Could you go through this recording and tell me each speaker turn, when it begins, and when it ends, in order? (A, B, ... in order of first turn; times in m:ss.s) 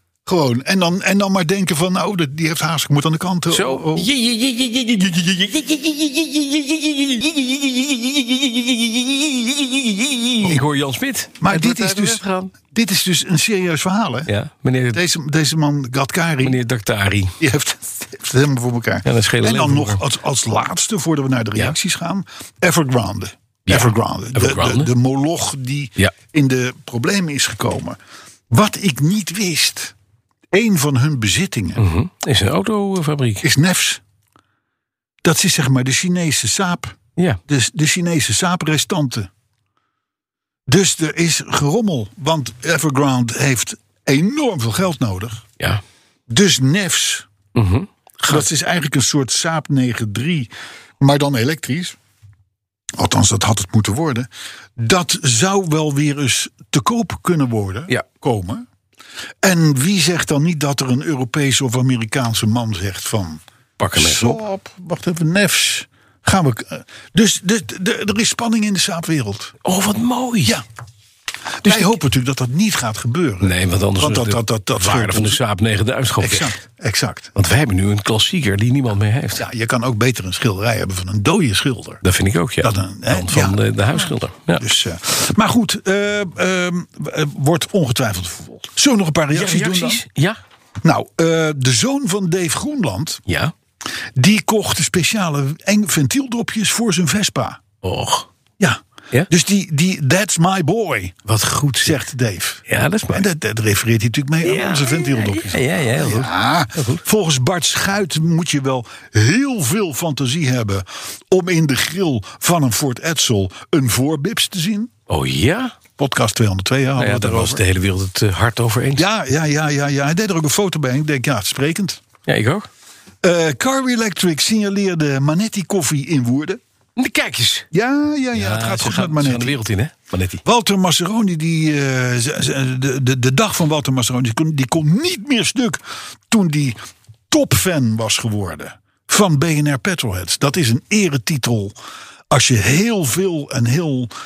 0:00.2-0:04.1 A
0:03.5-0:12.5 B
0:11.4-0:14.3 A
0:14.3-0:15.0 B
0:14.9-0:16.6 A
0:16.4-0:17.4 B
0:17.4-0:28.0 A
0:19.0-0:20.0 B
0:23.7-0:24.9 B
0:28.5-0:29.9 A
0:30.5-0:31.8 A
0:31.8-0:33.4 B
0:33.4-0:34.0 A
0:35.2-0:37.0 A
0:37.5-0:39.3 A
0:40.7-0:45.4 A
0:46.3-0:47.3 A
0:47.5-0:48.4 B
0:48.3-0:52.0 A
0:52.9-0:58.6 A
0:59.4-1:03.4 A
1:03.8-1:04.4 B
1:03.9-1:09.6 A
1:09.6-1:10.6 B
1:11.6-1:15.4 A
1:11.6-1:12.0 B
1:13.4-1:16.6 B
1:16.2-1:17.3 A
1:17.3-1:19.4 B
1:19.4-1:22.0 A
1:22.0-1:24.6 B
1:22.6-1:30.0 A
1:29.3-1:30.4 B
1:30.8-1:33.2 A
1:33.2-1:33.5 B
1:34.1-1:37.6 A
1:37.8-1:38.3 B
1:38.6-1:41.2 A
1:41.2-1:42.0 B
1:41.8-1:54.9 A
1:42.7-1:43.2 B
1:44.4-1:47.0 B
1:55.1-1:55.8 B
1:56.0-1:57.6 A
1:57.0-1:59.0 B
1:59.0-2:02.0 A
2:02.2-2:02.7 B
2:03.2-2:06.6 A
2:07.0-2:07.6 B
2:07.7-2:09.6 A
2:08.3-2:10.4 B
2:10.4-2:21.7 A
2:22.3-2:24.1 A